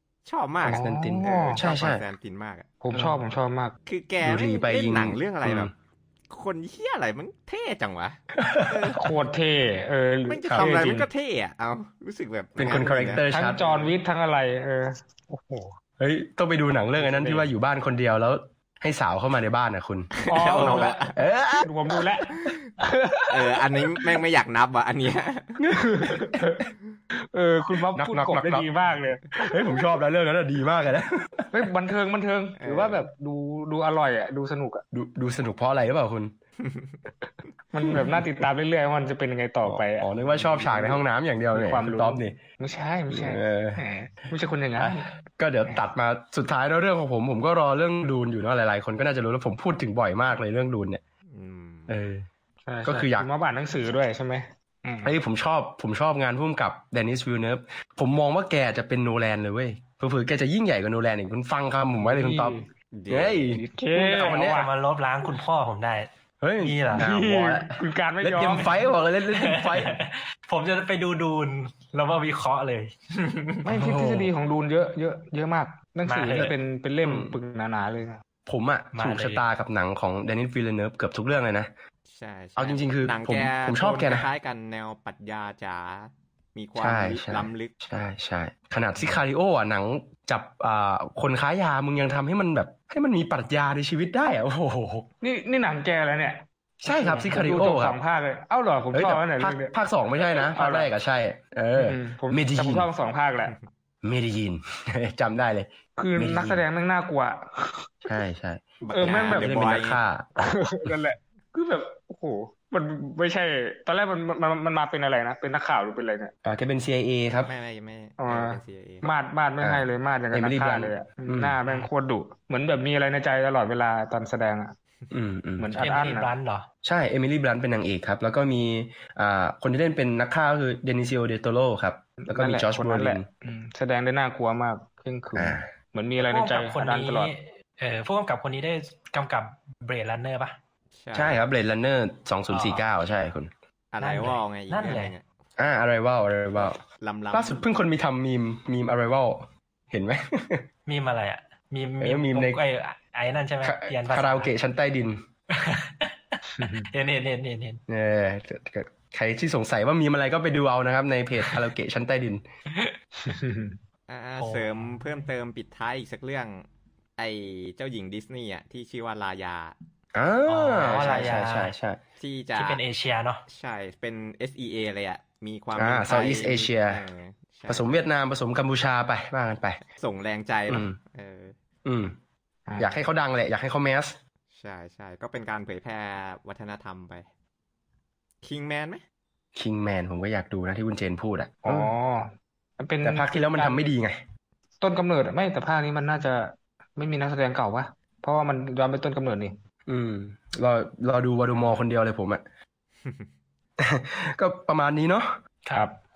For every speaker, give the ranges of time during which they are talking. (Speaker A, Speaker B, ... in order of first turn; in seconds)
Speaker A: 0.2-2.7, 3.9-5.7, 6.3-9.1, 10.3-13.9, 20.2-21.2, 23.3-25.6, 32.6-33.0, 36.6-37.0, 51.3-51.9, 62.9-63.6, 82.1-87.7, 108.8-110.0, 117.5-119.1, 141.0-141.4, 143.9-145.2, 146.6-147.7, 164.1-166.7, 167.2-169.8, 170.8-171.4, 172.2-172.8, 173.5-178.0, 179.9-181.6, 184.5-187.3, 188.4-189.0
Speaker B: 0.6-1.6, 2.8-3.7, 8.9-11.1, 12.6-15.7, 17.0-17.5, 20.3-21.0, 21.6-24.2, 25.7-26.6, 27.3-29.2, 31.5-34.9, 37.2-45.2, 52.7-55.1, 62.0-62.7, 63.5-64.7, 67.0-68.8, 73.7-78.2, 95.2-100.9, 101.8-103.6, 106.0-107.9, 108.9-109.6, 110.4-116.3, 118.2-124.8, 125.6-126.3, 132.2-137.3, 156.6-156.9, 163.2-163.8, 182.7-183.0, 191.7-193.9, 194.8-199.6
Speaker C: 0.7-2.0, 4.2-5.7, 8.3-8.9, 10.5-11.0, 12.6-13.8, 16.0-21.7, 25.6-26.6, 27.9-28.7, 29.4-31.6, 34.9-36.3, 37.9-38.2, 39.6-42.4, 43.1-43.8, 44.8-51.0, 51.9-52.3, 52.9-53.3, 55.0-64.7, 66.4-70.0, 73.8-74.3, 76.3-77.4, 78.5-81.7, 82.6-84.3, 86.8-95.1, 96.8-98.0, 98.9-102.9, 104.0-106.6, 108.1-110.2, 116.5-117.5, 119.6-121.6, 125.1-125.7, 126.8-133.3, 135.3-135.7, 141.2-143.5, 145.6-146.8, 147.3-150.7, 152.0-152.6, 153.6-155.2, 157.9-162.4, 170.1-172.0, 175.8-177.0, 177.7-179.8, 180.7-181.0, 181.8-182.2, 182.8-184.2, 189.6-191.9, 193.0-194.2, 199.9-202.4, 203.8-205.4
Speaker D: 64.2-66.1, 66.6-67.1, 68.4-73.7, 76.1-76.5, 78.9-79.5, 125.7-126.7, 136.2-140.6, 142.5-142.8, 144.0-145.2, 150.9-154.5, 155.5-157.8, 164.4-165.2, 170.5-171.7, 172.6-173.4